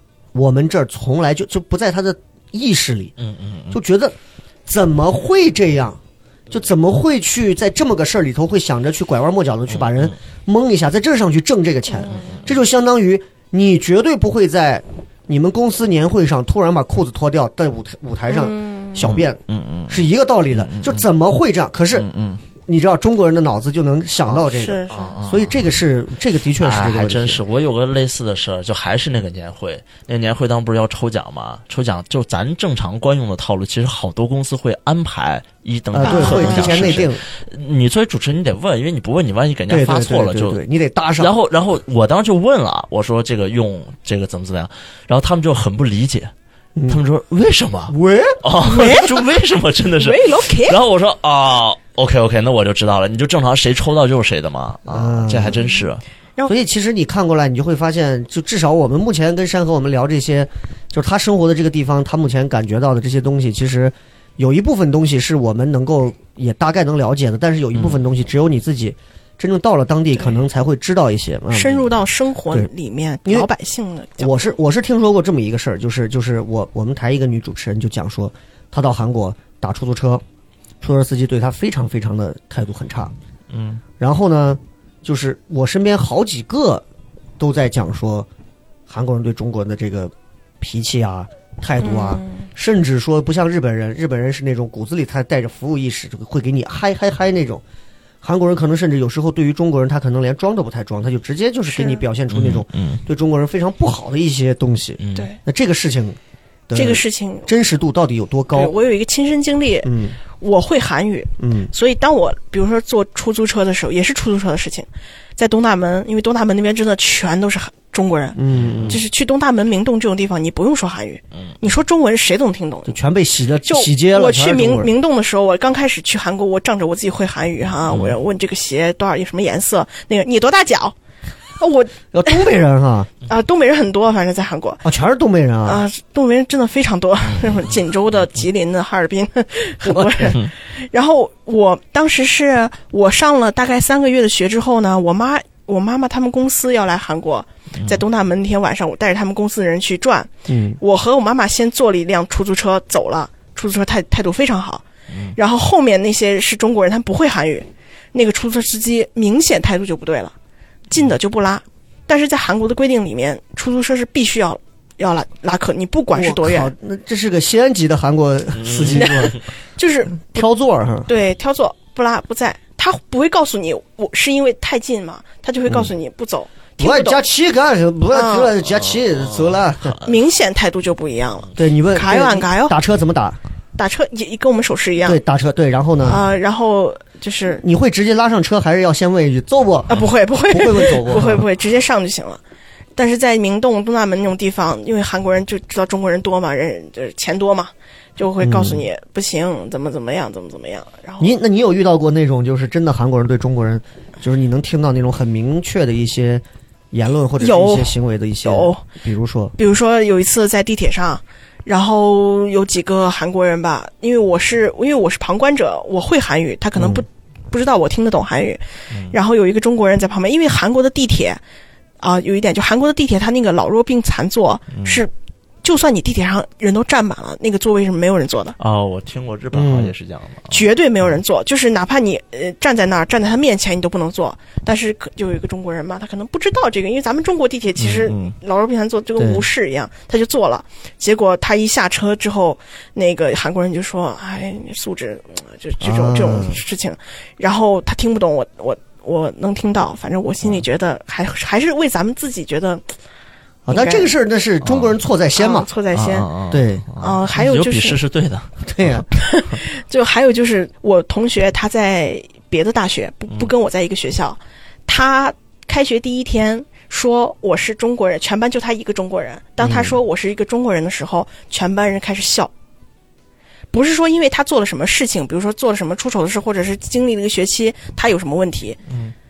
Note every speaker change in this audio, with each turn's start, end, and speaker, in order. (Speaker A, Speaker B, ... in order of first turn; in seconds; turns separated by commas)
Speaker A: 0.3-3.1, Speaker B: 3.2-3.8, Speaker A: 3.7-4.2, Speaker A: 4.7-6.0, Speaker A: 6.5-22.1, Speaker B: 9.7-10.2, Speaker C: 11.9-12.4, Speaker C: 18.3-19.1, Speaker B: 19.0-21.0, Speaker B: 21.9-22.4, Speaker A: 22.6-27.4, Speaker C: 24.4-25.1, Speaker B: 24.9-25.6, Speaker B: 26.6-40.6, Speaker A: 35.9-37.2, Speaker C: 36.0-37.1, Speaker A: 39.7-41.3, Speaker B: 41.2-46.3, Speaker A: 46.8-47.0, Speaker B: 46.9-56.0, Speaker A: 47.9-48.4, Speaker C: 48.6-49.2, Speaker C: 50.0-50.8, Speaker A: 54.9-55.6, Speaker C: 55.5-55.8, Speaker A: 56.5-71.9, Speaker C: 71.5-74.5, Speaker A: 74.2-80.2, Speaker A: 80.8-83.1, Speaker B: 83.5-83.8, Speaker A: 84.0-86.8, Speaker A: 87.4-88.3, Speaker A: 88.9-97.6, Speaker C: 91.8-92.5, Speaker A: 98.2-106.2, Speaker C: 101.7-102.0, Speaker B: 102.3-103.0, Speaker B: 105.0-105.3, Speaker A: 106.7-108.7, Speaker C: 106.7-107.5, Speaker C: 108.5-123.0, Speaker A: 109.8-110.2, Speaker A: 111.4-111.7, Speaker A: 118.4-119.0, Speaker B: 118.5-119.0, Speaker A: 122.9-124.9, Speaker C: 123.7-130.9, Speaker C: 131.6-132.4, Speaker A: 132.1-133.1, Speaker C: 133.3-134.8, Speaker A: 134.8-135.8, Speaker C: 135.7-154.8, Speaker B: 137.3-137.7, Speaker A: 139.8-140.4, Speaker A: 150.5-150.8, Speaker B: 155.1-155.4, Speaker C: 155.3-160.3, Speaker C: 160.9-166.7, Speaker A: 166.2-169.4, Speaker B: 168.6-169.4, Speaker C: 168.9-170.5, Speaker A: 170.3-171.1, Speaker C: 171.1-177.2, Speaker A: 176.8-180.0, Speaker C: 178.1-178.5, Speaker B: 178.7-180.1, Speaker C: 180.0-182.8, Speaker A: 181.6-183.4, Speaker C: 183.8-185.2, Speaker A: 185.0-186.2, Speaker C: 186.0-187.6, Speaker A: 187.6-191.4, Speaker C: 189.9-192.4, Speaker C: 193.0-201.3, Speaker A: 198.4-198.8, Speaker A: 201.2-209.5, Speaker C: 207.4-208.9, Speaker C: 209.6-221.4, Speaker A: 216.8-217.0, Speaker C: 222.0-225.1, Speaker B: 224.7-225.0, Speaker C: 225.6-228.6, Speaker B: 228.6-230.7, Speaker A: 229.5-229.9, Speaker C: 230.5-252.9, Speaker B: 237.8-238.3, Speaker A: 239.2-239.4, Speaker A: 245.8-246.6, Speaker A: 253.7-255.7, Speaker C: 253.7-254.1, Speaker B: 254.6-255.0, Speaker C: 255.4-256.3, Speaker B: 255.9-259.1, Speaker A: 256.5-256.9, Speaker C: 257.0-258.0, Speaker A: 258.6-259.1, Speaker C: 259.2-272.5, Speaker A: 269.6-270.0, Speaker C: 273.7-278.8